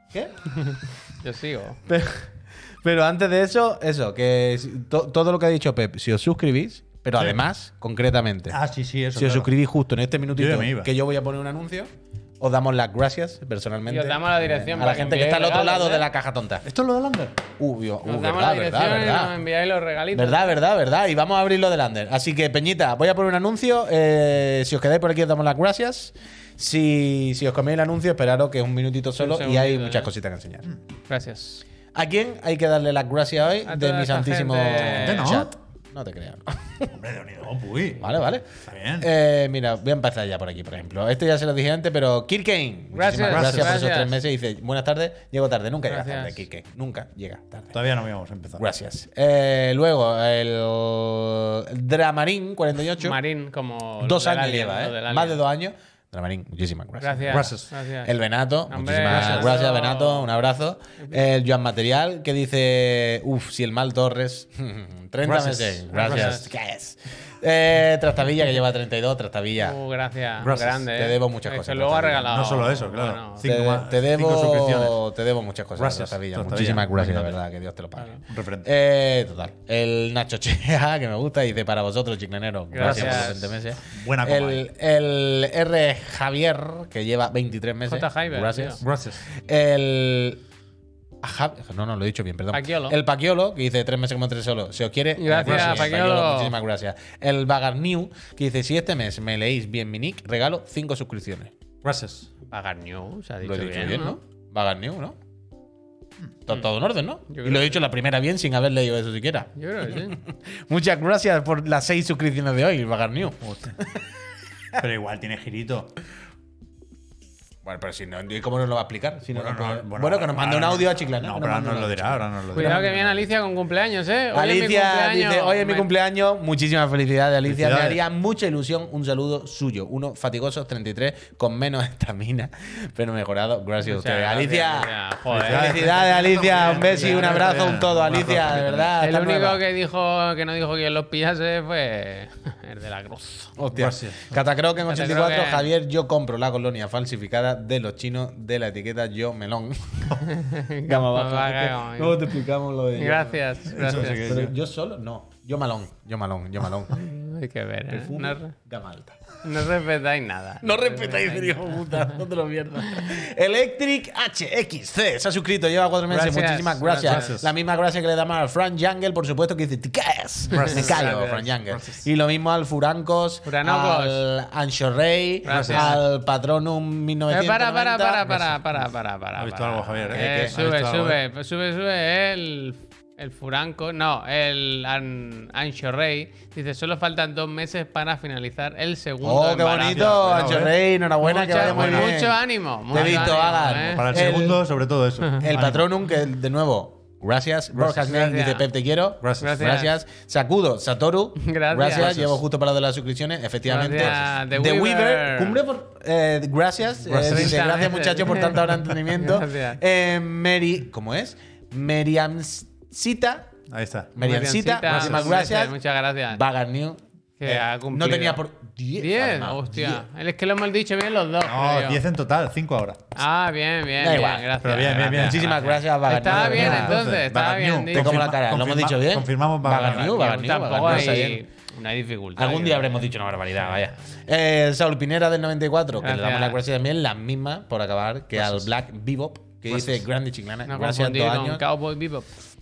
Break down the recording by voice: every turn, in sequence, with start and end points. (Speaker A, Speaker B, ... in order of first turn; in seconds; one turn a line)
Speaker A: 0.1-0.5
Speaker B: 0.5-1.8
Speaker A: 1.9-8.6
Speaker C: 8.5-9.5
Speaker A: 9.1-16.6
Speaker C: 10.3-10.9
Speaker B: 13.9-16.1
Speaker C: 16.6-17.4
Speaker A: 17.6-19.3
Speaker B: 18.0-20.6
Speaker A: 20.1-30.7
Speaker B: 29.2-30.1
Speaker B: 31.1-31.6
Speaker A: 31.9-36.9
Speaker B: 33.6-35.4
Speaker C: 34.9-35.5
Speaker C: 36.9-39.1
Speaker A: 38.0-38.5
Speaker A: 39.0-47.8
Speaker B: 42.9-44.2
Speaker C: 43.1-43.8
Speaker B: 45.9-46.4
Speaker C: 47.7-48.6
Speaker A: 48.6-53.2
Speaker B: 53.0-55.4
Speaker A: 54.0-57.5
Speaker B: 57.0-58.1
Speaker C: 57.3-57.7
Speaker A: 58.0-69.8
Speaker B: 58.7-60.3
Speaker C: 59.1-59.6
Speaker B: 61.0-61.2
Speaker C: 65.2-66.5
Speaker B: 65.9-66.5
Speaker B: 69.6-73.5
Speaker C: 70.4-70.8
Speaker A: 70.4-72.3
Speaker C: 72.2-75.0
Speaker A: 73.4-90.4
Speaker C: 75.8-77.4
Speaker C: 78.3-78.7
Speaker B: 82.7-83.5
Speaker C: 82.8-84.7
Speaker B: 87.9-88.8
Speaker C: 88.8-89.2
Speaker A: 91.2-101.5
Speaker B: 92.5-93.0
Speaker B: 95.2-96.6
Speaker C: 95.3-95.9
Speaker C: 101.8-102.3
Speaker B: 102.5-104.2
Speaker A: 103.4-105.2
Speaker A: 106.5-114.0
Speaker B: 107.3-107.8
Speaker B: 109.5-110.2
Speaker C: 113.4-113.8
Speaker C: 114.8-115.9
Speaker A: 117.6-122.9
Speaker C: 119.3-123.2
Speaker B: 122.5-125.9
Speaker A: 124.3-139.6
Speaker C: 127.4-128.0
Speaker B: 133.8-137.8
Speaker C: 135.3-138.9
Speaker B: 139.0-143.5
Speaker A: 143.6-150.2
Speaker C: 143.7-144.4
Speaker B: 144.8-145.7
Speaker B: 150.2-152.3
Speaker A: 150.8-157.0
Speaker B: 152.9-154.3
Speaker C: 153.7-154.6
Speaker B: 156.9-158.5
Speaker A: 157.9-159.2
Speaker B: 159.4-162.1
Speaker A: 160.6-178.5
Speaker B: 166.1-167.3
Speaker C: 167.0-167.5
Speaker C: 170.5-171.1
Speaker B: 170.5-171.5
Speaker C: 171.7-172.1
Speaker B: 173.4-174.2
Speaker B: 175.4-176.0
Speaker C: 175.4-176.0
Speaker B: 177.3-190.2
Speaker C: 179.3-181.2
Speaker A: 180.1-180.5
Speaker A: 189.2-194.6
Speaker C: 189.8-190.8
Speaker B: 191.2-194.6
Speaker C: 191.5-192.1
Speaker C: 192.9-195.9
Speaker A: 195.4-213.5
Speaker C: 197.7-198.2
Speaker B: 198.0-198.7
Speaker C: 199.2-199.6
Speaker B: 199.4-199.9
Speaker B: 201.4-202.2
Speaker C: 201.9-202.4
Speaker B: 203.7-205.6
Speaker C: 207.0-207.9
Speaker B: 207.3-209.8
Speaker C: 213.7-214.1
Speaker A: 214.2-215.7
Speaker B: 214.2-216.4
Speaker C: 214.8-215.4
Speaker A: 216.3-220.0
Speaker B: 217.4-218.4
Speaker B: 219.0-222.0
Speaker C: 221.4-223.2
Speaker B: 223.2-228.2
Speaker A: 224.0-227.0
Speaker C: 224.6-225.6
Speaker C: 226.2-230.2
Speaker A: 227.9-231.4
Speaker B: 229.9-233.0
Speaker C: 230.8-231.2
Speaker A: 232.3-241.6
Speaker B: 236.0-236.6
Speaker C: 238.3-238.7
Speaker C: 239.7-240.0
Speaker B: 240.7-242.3